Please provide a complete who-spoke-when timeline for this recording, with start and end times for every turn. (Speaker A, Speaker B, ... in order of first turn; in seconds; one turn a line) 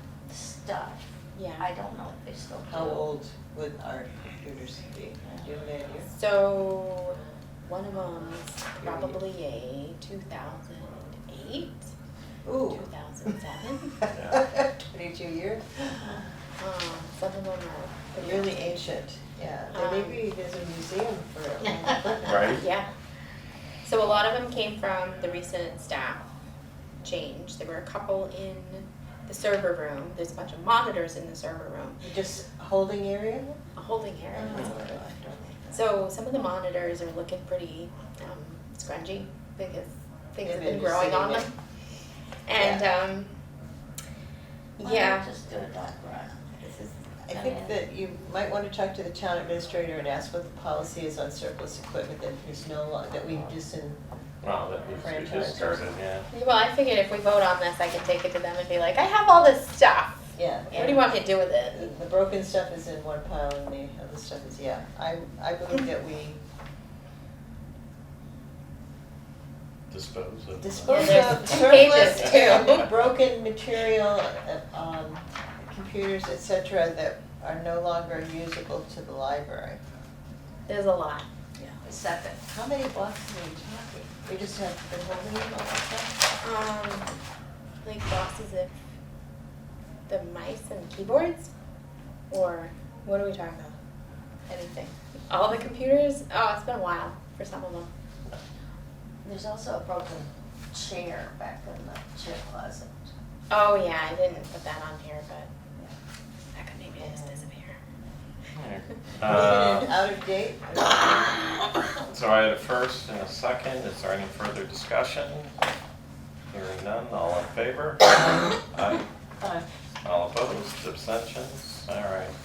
Speaker A: 0.2-3.1
Speaker B: 1.3-1.7
Speaker C: 2.7-6.1
Speaker A: 5.2-5.5
Speaker B: 6.1-11.9
Speaker C: 8.8-9.2
Speaker C: 12.4-12.9
Speaker B: 12.7-14.0
Speaker C: 14.0-16.2
Speaker D: 14.1-14.4
Speaker B: 16.6-18.8
Speaker C: 18.2-22.6
Speaker B: 19.7-20.2
Speaker A: 21.6-22.5
Speaker D: 22.2-22.6
Speaker B: 22.4-22.9
Speaker B: 23.8-26.3
Speaker B: 27.0-32.0
Speaker C: 32.0-33.6
Speaker B: 33.8-34.8
Speaker C: 34.3-35.9
Speaker B: 35.7-41.5
Speaker C: 40.4-41.5
Speaker B: 42.5-43.3
Speaker C: 42.5-42.9
Speaker B: 44.8-45.2
Speaker A: 44.8-46.4
Speaker C: 46.6-54.0
Speaker A: 47.3-47.8
Speaker D: 54.4-56.2
Speaker C: 55.0-55.9
Speaker B: 56.3-61.9
Speaker C: 60.3-61.1
Speaker C: 61.7-66.4
Speaker D: 69.9-72.3
Speaker C: 70.6-79.8
Speaker B: 70.9-72.8
Speaker B: 80.7-81.3
Speaker A: 81.6-82.4
Speaker C: 82.5-86.1
Speaker B: 86.4-87.1
Speaker B: 87.8-88.7
Speaker B: 90.1-91.5
Speaker B: 92.3-93.7
Speaker B: 94.5-97.9
Speaker A: 99.2-103.1
Speaker B: 103.5-105.5
Speaker B: 106.5-107.8
Speaker C: 107.0-107.3
Speaker D: 108.5-109.9
Speaker C: 109.2-111.6
Speaker D: 112.1-115.5
Speaker D: 116.5-119.1
Speaker A: 119.4-119.7
Speaker D: 120.0-122.3